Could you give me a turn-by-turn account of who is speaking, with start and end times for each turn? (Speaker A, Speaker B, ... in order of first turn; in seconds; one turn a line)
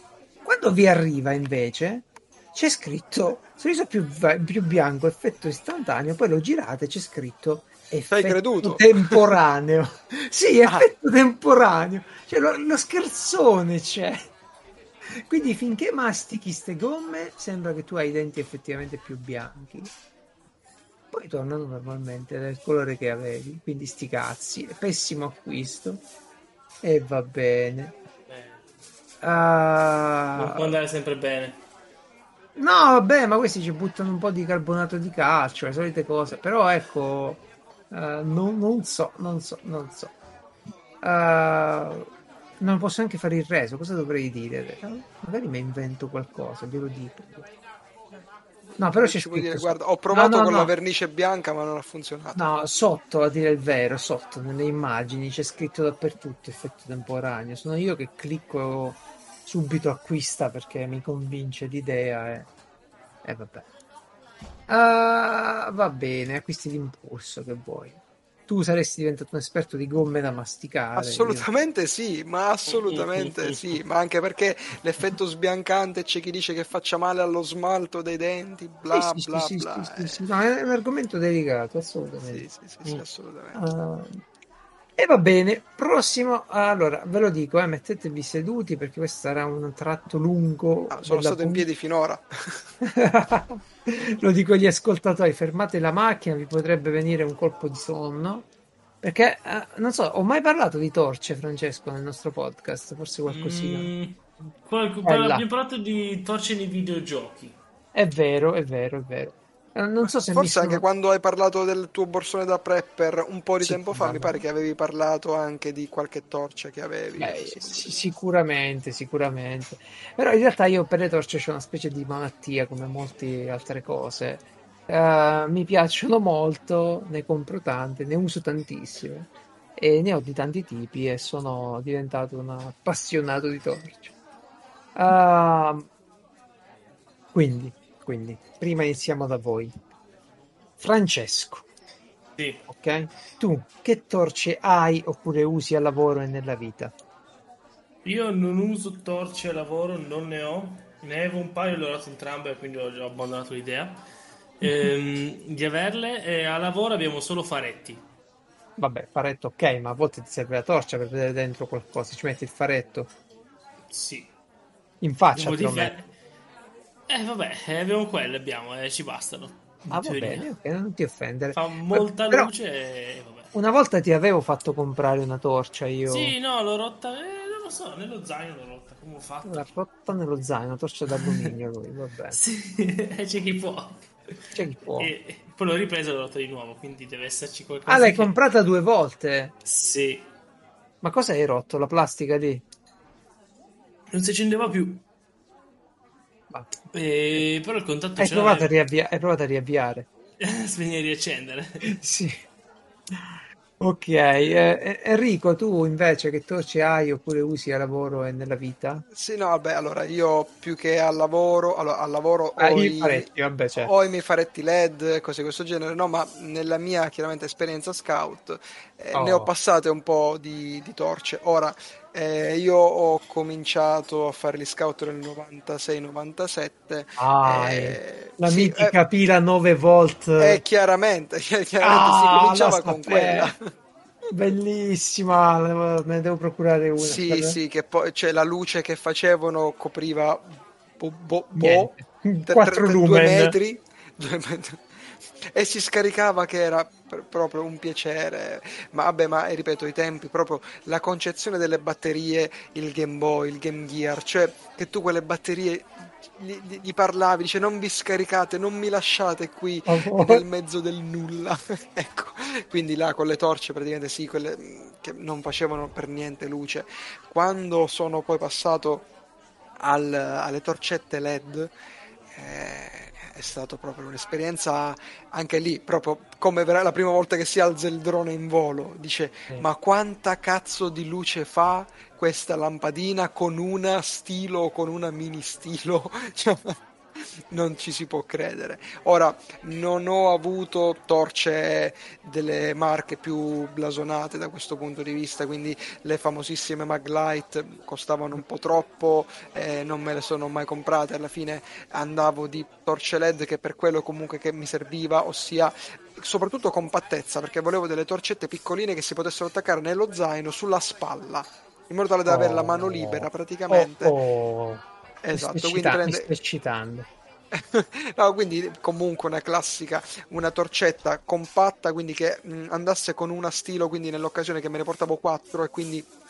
Speaker A: 0.5-14.3
Speaker B: 8.1-9.2
Speaker A: 15.1-19.9
Speaker A: 21.1-26.0
Speaker A: 26.8-27.9
Speaker C: 28.3-28.6
Speaker A: 29.2-30.8
Speaker C: 30.4-31.6
Speaker A: 32.5-40.1
Speaker A: 41.0-42.1
Speaker A: 42.6-47.5
Speaker B: 48.1-52.4
Speaker A: 48.8-50.7
Speaker A: 52.4-62.5
Speaker A: 63.2-63.6
Speaker A: 64.7-71.5
Speaker B: 71.0-80.2
Speaker C: 72.7-73.8
Speaker A: 78.9-82.5
Speaker B: 82.3-83.6
Speaker A: 83.5-84.2
Speaker A: 85.0-91.7
Speaker B: 90.9-92.7
Speaker A: 92.8-98.5
Speaker A: 99.0-103.9
Speaker C: 103.3-107.6
Speaker A: 105.0-105.5
Speaker A: 107.9-110.8
Speaker B: 110.3-118.0
Speaker A: 113.6-114.4
Speaker A: 117.2-134.1
Speaker A: 134.9-135.8
Speaker A: 137.3-139.7
Speaker A: 140.8-141.7
Speaker A: 142.7-146.9
Speaker C: 148.1-154.0
Speaker A: 154.6-154.9
Speaker C: 154.6-158.0
Speaker A: 158.8-163.1
Speaker C: 163.9-164.3
Speaker A: 165.0-166.0
Speaker C: 165.3-166.1
Speaker C: 167.1-170.5
Speaker A: 169.9-172.5
Speaker C: 171.5-173.5
Speaker A: 173.5-176.3
Speaker C: 176.1-179.7
Speaker A: 179.5-182.4
Speaker C: 181.2-181.5
Speaker C: 182.3-184.1
Speaker A: 184.6-185.1
Speaker C: 185.0-188.3
Speaker A: 187.9-189.5
Speaker C: 189.7-190.3
Speaker A: 191.0-192.6
Speaker C: 194.1-195.0
Speaker C: 196.9-198.7
Speaker A: 198.2-200.1
Speaker C: 200.4-201.9
Speaker A: 201.8-202.4
Speaker A: 203.1-209.1
Speaker B: 209.2-228.9
Speaker A: 212.6-213.9
Speaker A: 219.1-219.5
Speaker A: 227.2-230.6
Speaker B: 230.4-233.7
Speaker A: 231.8-233.5
Speaker A: 234.3-237.6
Speaker B: 237.0-240.4
Speaker B: 241.0-241.9
Speaker A: 241.6-243.6
Speaker B: 242.5-269.1
Speaker A: 259.9-260.4
Speaker B: 269.8-271.7
Speaker B: 272.3-286.8
Speaker B: 287.5-314.2
Speaker A: 312.3-317.1
Speaker B: 315.2-316.3
Speaker B: 317.5-326.1